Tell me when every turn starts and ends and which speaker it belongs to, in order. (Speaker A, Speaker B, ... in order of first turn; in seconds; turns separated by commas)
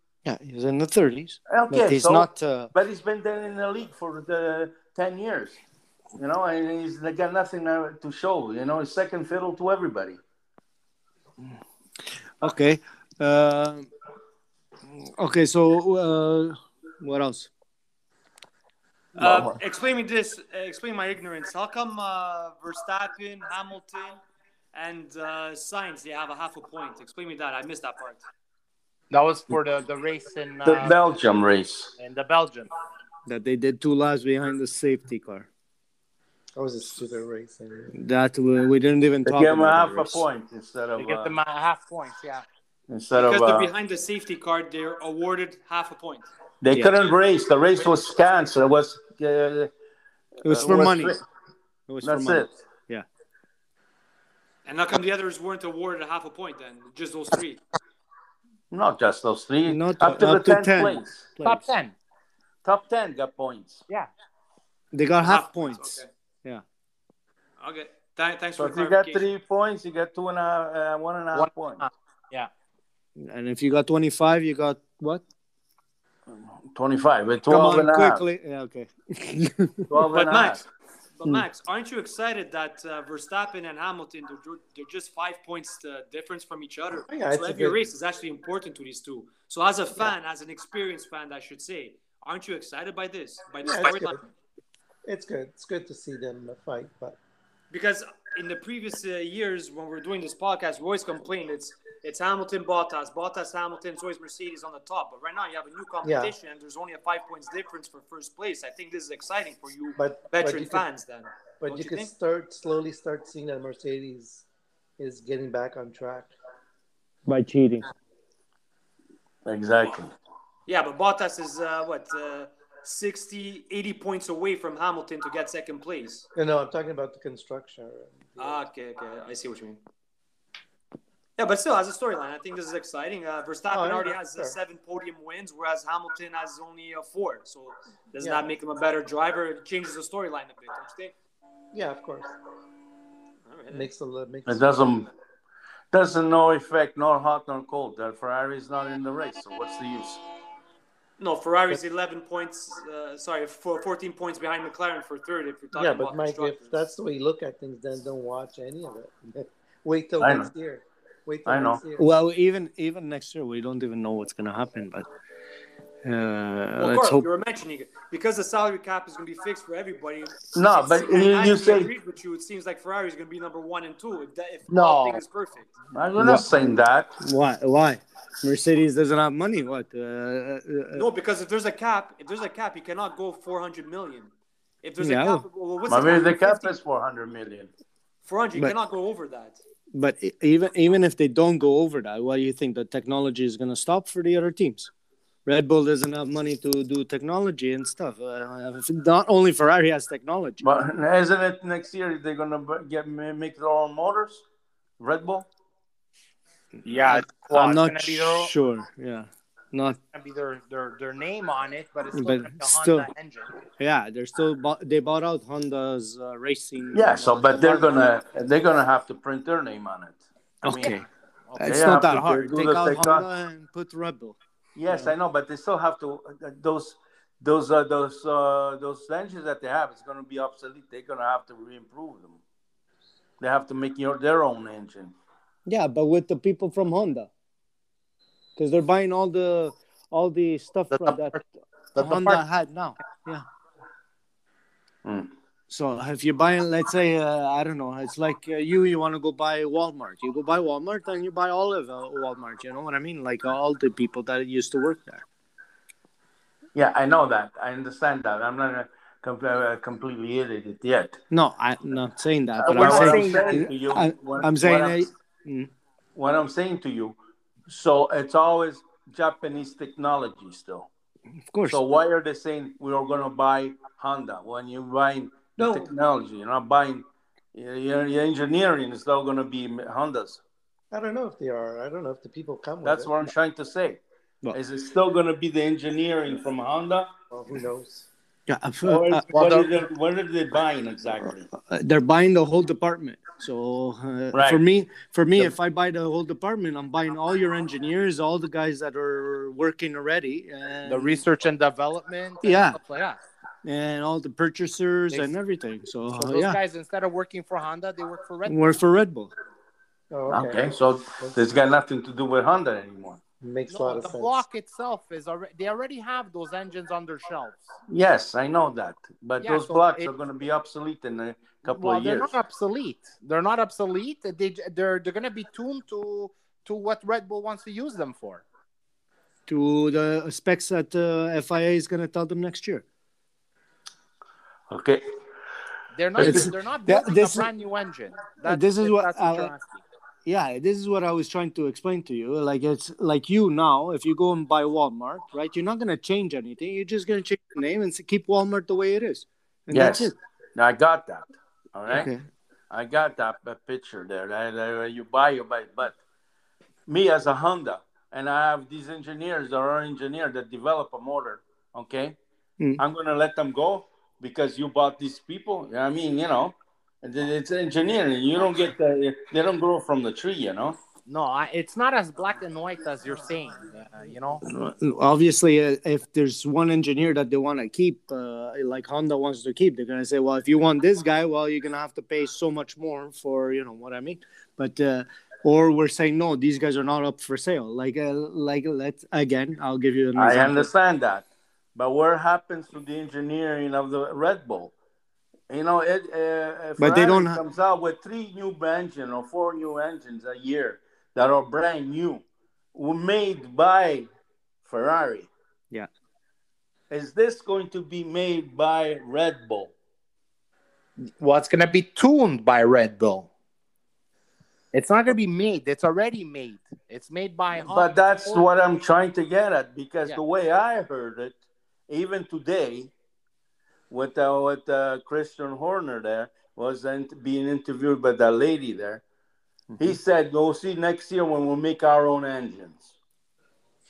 Speaker A: 0.2-2.7, Speaker B: 1.5-5.6, Speaker B: 6.2-10.2, Speaker A: 12.4-13.9, Speaker A: 14.9-17.5, Speaker C: 19.1-24.2, Speaker B: 19.2-19.5, Speaker C: 24.7-28.2, Speaker D: 29.1-31.0, Speaker B: 30.6-31.9, Speaker D: 32.0-32.7, Speaker A: 33.3-35.5, Speaker E: 36.5-38.0, Speaker A: 37.9-40.2, Speaker B: 39.2-41.4, Speaker D: 41.0-42.4, Speaker B: 42.9-43.7, Speaker C: 43.1-46.3, Speaker B: 46.6-49.7, Speaker A: 46.7-47.0, Speaker A: 50.4-51.2, Speaker B: 50.4-51.2, Speaker A: 51.9-53.0, Speaker B: 52.0-52.5, Speaker C: 54.6-57.6, Speaker B: 58.7-61.2, Speaker A: 59.6-61.7, Speaker D: 61.4-61.9, Speaker B: 62.6-63.8, Speaker A: 64.9-66.6, Speaker C: 65.2-66.1, Speaker C: 67.6-69.3, Speaker B: 68.6-71.8, Speaker D: 71.3-72.5, Speaker A: 73.2-75.2, Speaker B: 76.3-78.2, Speaker A: 77.5-79.9, Speaker B: 79.9-80.6, Speaker C: 80.1-94.2, Speaker E: 87.0-87.8, Speaker E: 93.6-94.2, Speaker E: 95.0-97.2, Speaker C: 97.7-112.1, Speaker E: 106.0-106.3, Speaker E: 110.0-110.8, Speaker E: 111.6-114.4, Speaker E: 115.0-116.3, Speaker A: 117.3-117.9, Speaker B: 119.4-120.1, Speaker C: 120.7-126.2, Speaker E: 126.3-128.6, Speaker C: 128.4-129.8, Speaker C: 131.4-141.1, Speaker E: 133.7-134.6, Speaker E: 138.2-138.5, Speaker E: 141.7-142.3, Speaker C: 143.5-143.9, Speaker E: 143.7-144.7, Speaker B: 144.5-145.1, Speaker B: 145.9-150.2, Speaker C: 151.2-156.8, Speaker E: 155.7-162.1, Speaker B: 160.2-160.5, Speaker B: 161.4-161.8, Speaker A: 162.0-165.1, Speaker A: 166.0-167.2, Speaker C: 166.8-175.7, Speaker B: 170.5-171.9, Speaker D: 174.7-175.2, Speaker B: 175.9-177.1, Speaker A: 176.2-176.5, Speaker A: 177.2-181.0, Speaker C: 180.9-186.7, Speaker A: 185.0-185.4, Speaker B: 185.9-187.7, Speaker C: 188.2-189.6, Speaker A: 189.9-194.9, Speaker A: 195.4-200.6, Speaker B: 200.6-204.4, Speaker B: 205.0-205.5, Speaker D: 206.8-208.5, Speaker A: 206.8-210.0, Speaker D: 210.1-213.5, Speaker A: 212.1-213.1, Speaker A: 213.8-217.9, Speaker B: 216.9-221.0, Speaker A: 220.6-221.1, Speaker D: 221.5-221.8, Speaker A: 221.6-224.4, Speaker B: 221.6-223.2, Speaker B: 224.7-232.4, Speaker A: 224.9-225.1, Speaker B: 233.4-235.1, Speaker A: 235.7-237.3, Speaker A: 238.6-243.4, Speaker D: 240.9-241.4, Speaker D: 241.9-242.4, Speaker B: 245.0-245.3, Speaker A: 245.7-255.2, Speaker B: 256.7-261.2, Speaker A: 261.3-265.7, Speaker B: 262.6-265.1, Speaker D: 262.6-263.6, Speaker B: 266.1-270.9, Speaker A: 271.5-271.8, Speaker B: 271.7-280.4, Speaker E: 275.6-275.9, Speaker E: 280.9-283.2, Speaker B: 282.8-284.0, Speaker B: 284.5-287.1, Speaker E: 287.3-288.1, Speaker A: 288.5-289.2, Speaker B: 288.8-291.4, Speaker D: 289.3-289.7, Speaker A: 291.5-301.2, Speaker B: 294.3-294.6, Speaker D: 300.9-303.2, Speaker A: 302.4-302.8, Speaker A: 303.6-306.6, Speaker D: 306.1-308.6, Speaker A: 308.4-309.3, Speaker E: 310.1-311.4, Speaker B: 310.3-313.2, Speaker E: 313.4-314.4, Speaker D: 313.7-317.7, Speaker B: 317.9-322.3, Speaker D: 319.4-320.1, Speaker D: 321.7-328.4, Speaker A: 329.5-332.8, Speaker B: 334.7-335.0, Speaker D: 335.9-339.8, Speaker B: 336.2-336.5, Speaker A: 336.2-337.5, Speaker A: 338.4-339.5, Speaker A: 340.2-350.2, Speaker B: 349.7-352.1, Speaker A: 351.9-352.2, Speaker B: 352.7-356.0, Speaker B: 356.9-362.2, Speaker B: 362.8-370.8, Speaker D: 371.1-374.4, Speaker A: 374.4-390.7, Speaker B: 390.1-394.7, Speaker B: 395.5-404.1, Speaker A: 396.8-397.4, Speaker B: 404.6-405.3, Speaker B: 406.9-409.7, Speaker D: 411.2-413.3, Speaker D: 414.7-418.4, Speaker B: 417.6-421.4, Speaker B: 421.9-422.9, Speaker B: 423.9-429.0, Speaker A: 429.7-430.0, Speaker B: 429.8-432.9